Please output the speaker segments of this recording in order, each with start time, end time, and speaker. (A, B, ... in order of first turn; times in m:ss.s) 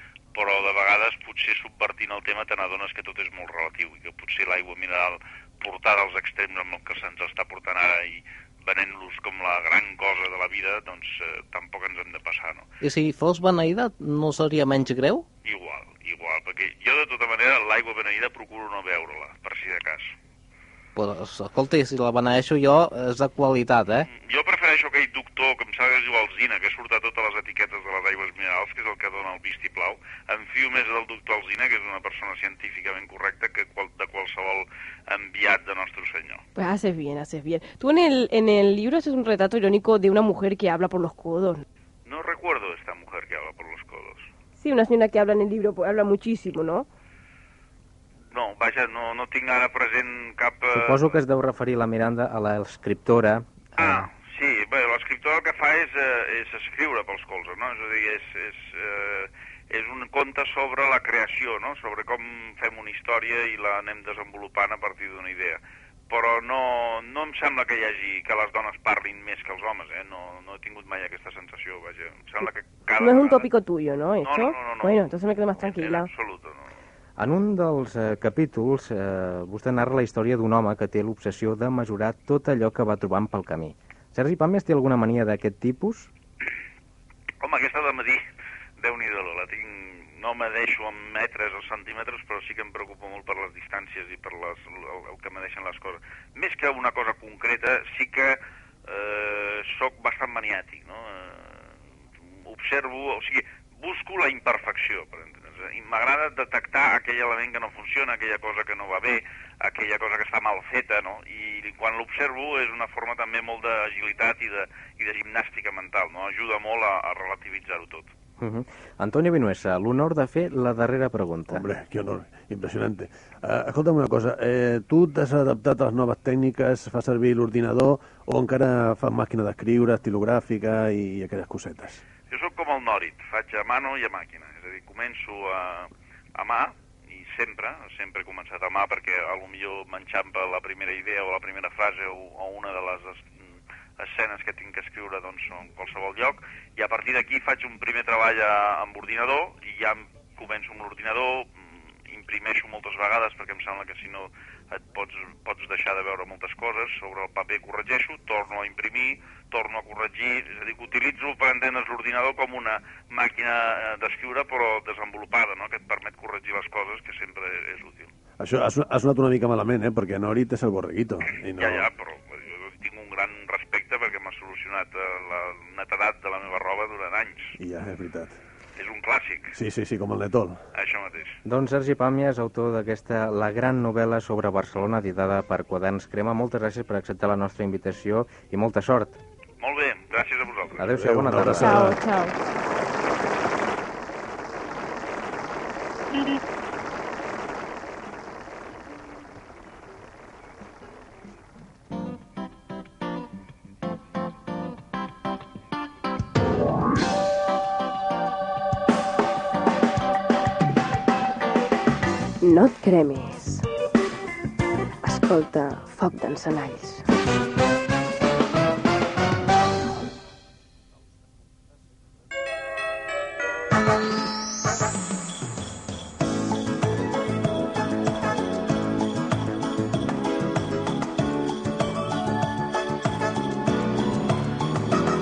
0:00.3-0:12.7 A
0:12.8-0:15.2 B
0:15.4-0:20.1 A
0:21.0-0:24.1 B
0:24.0-0:36.4 A
0:36.6-0:41.6 C
0:42.1-0:44.3 A
0:44.6-0:46.9 C
0:48.3-0:51.1 A
0:50.7-0:54.1 D
0:53.8-1:13.5 A
1:13.0-1:16.1 C
1:14.2-1:15.0 A
1:15.6-1:16.7 A
1:17.2-1:26.1 D
1:27.4-1:28.3 A
1:28.8-1:41.7 A
1:42.4-1:58.1 A
1:58.4-2:01.6 D
2:01.5-2:12.0 E
2:12.3-2:23.4 A
2:24.0-2:48.1 A
2:48.4-2:51.9 E
2:51.6-2:57.6 A
2:57.6-2:58.4 E
2:58.8-2:59.6 A
2:59.6-3:00.6 E
3:00.8-3:01.4 A
3:01.4-3:09.2 D
3:09.6-3:10.9 A
3:10.8-3:12.0 D
3:10.9-3:12.0 E
3:11.6-3:12.4 C
3:32.4-3:33.7 C
3:35.0-3:37.0 C